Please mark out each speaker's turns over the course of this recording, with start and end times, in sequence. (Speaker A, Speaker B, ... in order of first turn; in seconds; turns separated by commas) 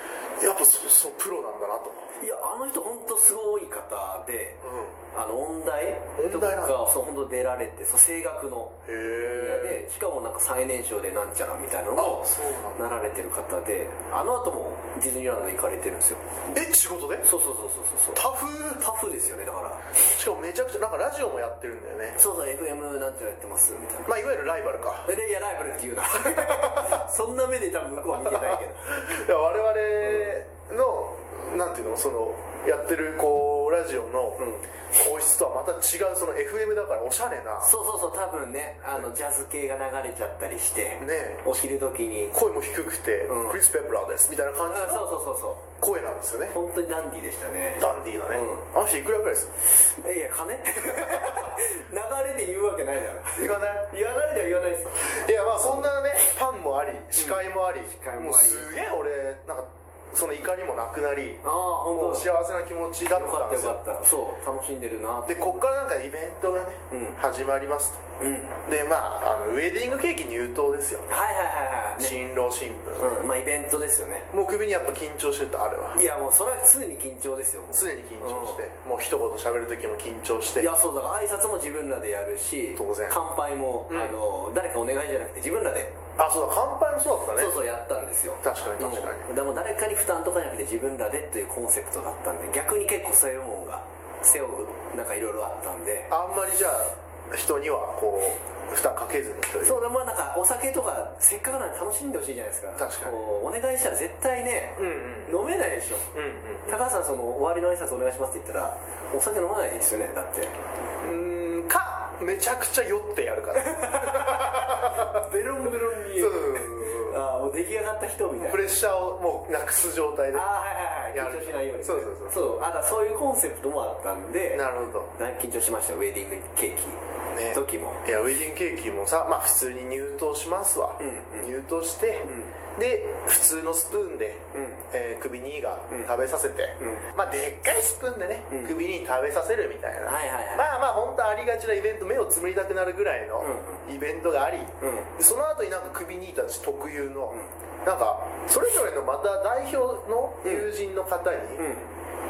Speaker A: 0.4-2.0, Speaker B: 2.2-16.5, Speaker A: 4.6-5.0, Speaker A: 6.2-6.8, Speaker A: 8.8-9.8, Speaker A: 11.9-12.9, Speaker A: 16.5-17.3, Speaker B: 17.2-20.0, Speaker A: 18.1-18.9, Speaker A: 19.9-22.2, Speaker B: 22.1-24.1, Speaker A: 24.1-25.1, Speaker B: 25.0-29.0, Speaker A: 26.2-27.0, Speaker A: 28.1-37.7, Speaker B: 30.0-30.3, Speaker B: 34.4-34.7, Speaker B: 37.6-42.4, Speaker A: 41.0-41.5, Speaker A: 42.3-45.1, Speaker B: 43.3-43.6, Speaker B: 44.7-45.6, Speaker A: 45.8-46.5, Speaker B: 46.5-48.6, Speaker A: 47.7-49.5, Speaker B: 49.6-55.9, Speaker A: 53.3-53.9, Speaker A: 55.0-63.8, Speaker B: 57.1-58.9, Speaker B: 61.4-62.3, Speaker B: 63.1-65.7, Speaker A: 65.2-68.0, Speaker B: 66.9-67.2, Speaker B: 68.2-68.5, Speaker A: 68.6-71.1, Speaker B: 71.1-72.2, Speaker A: 72.0-73.2, Speaker B: 73.0-74.3, Speaker A: 74.3-76.0, Speaker B: 75.9-78.6, Speaker A: 77.7-80.7, Speaker B: 80.6-86.0, Speaker A: 82.8-83.2, Speaker A: 83.9-84.2, Speaker A: 86.2-87.6, Speaker B: 87.3-96.1, Speaker A: 88.4-89.3, Speaker A: 96.1-99.8, Speaker B: 99.6-106.1, Speaker A: 102.8-103.2, Speaker A: 104.8-105.3, Speaker A: 106.1-106.8, Speaker B: 106.7-110.5, Speaker A: 111.0-117.2, Speaker B: 113.5-118.7, Speaker A: 118.3-120.5, Speaker B: 120.3-127.0, Speaker A: 121.1-122.4, Speaker A: 124.5-125.1, Speaker A: 127.3-151.7, Speaker B: 127.5-128.0, Speaker B: 131.0-131.5, Speaker B: 134.5-134.8, Speaker B: 136.8-137.0, Speaker B: 138.5-138.8, Speaker B: 140.1-140.7, Speaker B: 143.4-143.8, Speaker B: 144.8-145.1, Speaker B: 151.6-151.9